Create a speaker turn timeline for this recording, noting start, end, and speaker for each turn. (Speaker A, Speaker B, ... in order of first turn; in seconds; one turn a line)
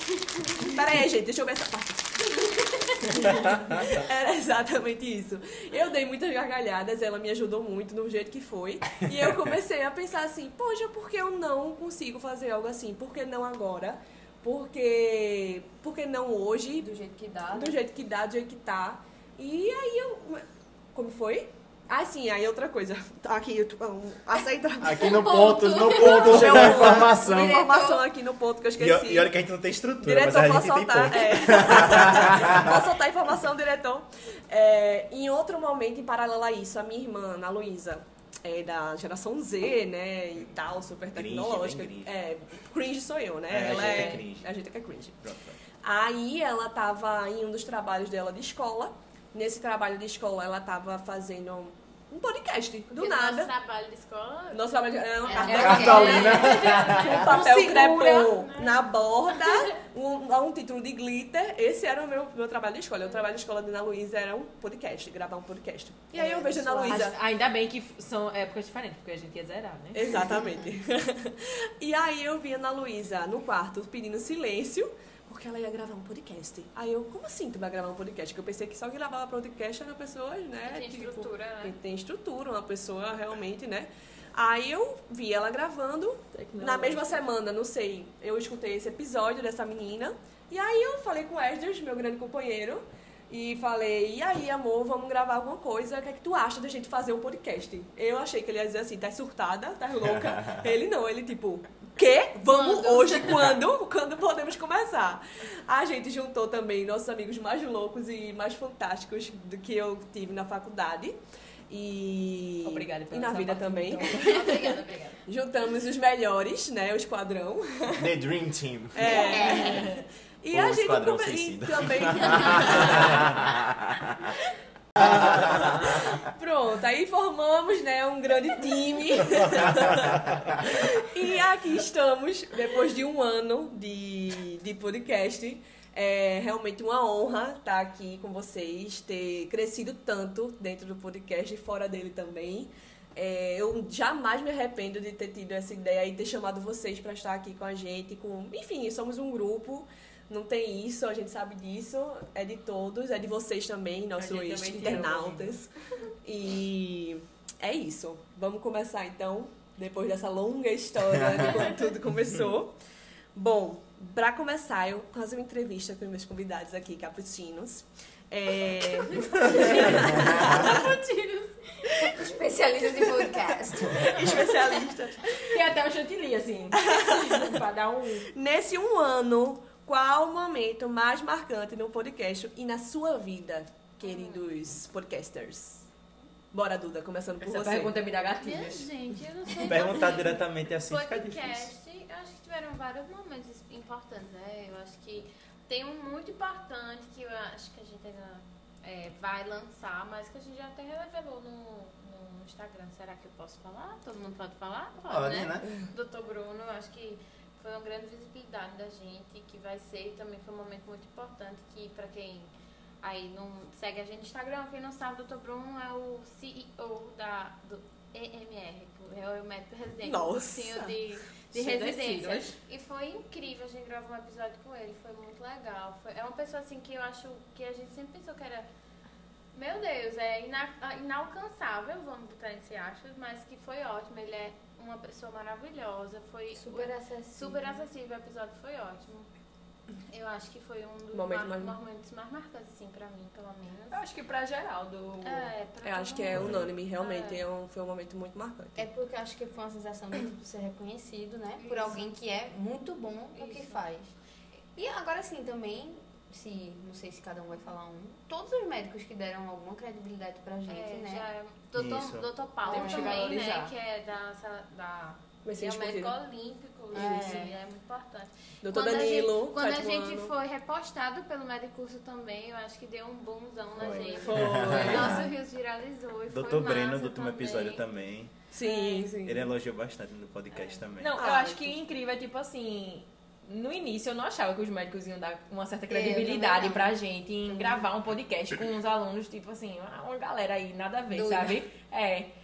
Speaker A: 0.4-16.9
Speaker B: 16.8-17.8
Speaker A: 17.5-29.4
Speaker C: 24.8-27.1
Speaker D: 24.9-27.5
Speaker B: 25.0-26.4
Speaker B: 27.1-28.1
Speaker C: 28.8-32.7
Speaker A: 30.0-53.5
Speaker C: 41.1-42.1
Speaker C: 43.5-44.5
Speaker E: 43.8-44.2
Speaker C: 45.2-45.5
Speaker F: 53.0-59.5
Speaker A: 54.5-67.2
Speaker B: 55.3-56.4
Speaker E: 55.4-58.4
Speaker D: 55.6-57.1
Speaker C: 55.9-57.0
Speaker B: 66.2-67.0
Speaker E: 66.9-70.3
Speaker A: 69.9-111.2
Speaker F: 80.6-81.8
Speaker E: 86.3-87.2
Speaker D: 100.3-100.6
Speaker A: 111.7-118.1
Speaker E: 112.6-114.6
Speaker F: 114.2-115.2
Speaker D: 118.0-119.2
Speaker A: 118.9-123.4
Speaker B: 119.1-119.9
Speaker E: 119.4-120.0
Speaker D: 120.5-124.3
Speaker D: 125.0-126.1
Speaker A: 125.0-155.7
Speaker E: 154.2-155.6
Speaker A: 156.2-162.8
Speaker A: 163.3-170.9
Speaker B: 172.0-174.1
Speaker A: 173.3-175.4
Speaker E: 175.4-178.3
Speaker A: 176.8-177.6
Speaker A: 178.3-185.9
Speaker F: 184.0-184.5
Speaker A: 186.5-188.1
Speaker E: 187.4-188.9
Speaker F: 188.4-212.5
Speaker C: 189.6-191.7
Speaker D: 205.0-205.7
Speaker F: 213.0-228.7
Speaker A: 220.0-221.0
Speaker E: 221.5-222.6
Speaker F: 229.5-239.3
Speaker B: 236.5-237.9
Speaker F: 240.1-244.0
Speaker A: 241.1-241.7
Speaker E: 243.9-245.5
Speaker F: 245.2-247.4
Speaker A: 245.8-248.8
Speaker B: 248.8-254.1
Speaker F: 251.6-252.1
Speaker F: 253.3-253.8
Speaker B: 254.8-261.2
Speaker F: 260.7-277.8
Speaker C: 261.8-262.2
Speaker E: 262.6-263.7
Speaker B: 262.7-263.2
Speaker A: 265.4-266.1
Speaker A: 266.9-267.4
Speaker B: 266.9-267.5
Speaker A: 268.6-270.3
Speaker C: 273.8-274.1
Speaker A: 273.9-275.2
Speaker E: 274.2-275.1
Speaker D: 274.3-275.2
Speaker C: 276.3-278.3
Speaker A: 278.5-279.5
Speaker F: 278.6-279.1
Speaker C: 279.2-281.2
Speaker F: 280.5-280.8
Speaker E: 281.0-292.3
Speaker A: 281.2-281.7
Speaker B: 285.9-287.9
Speaker B: 291.1-291.6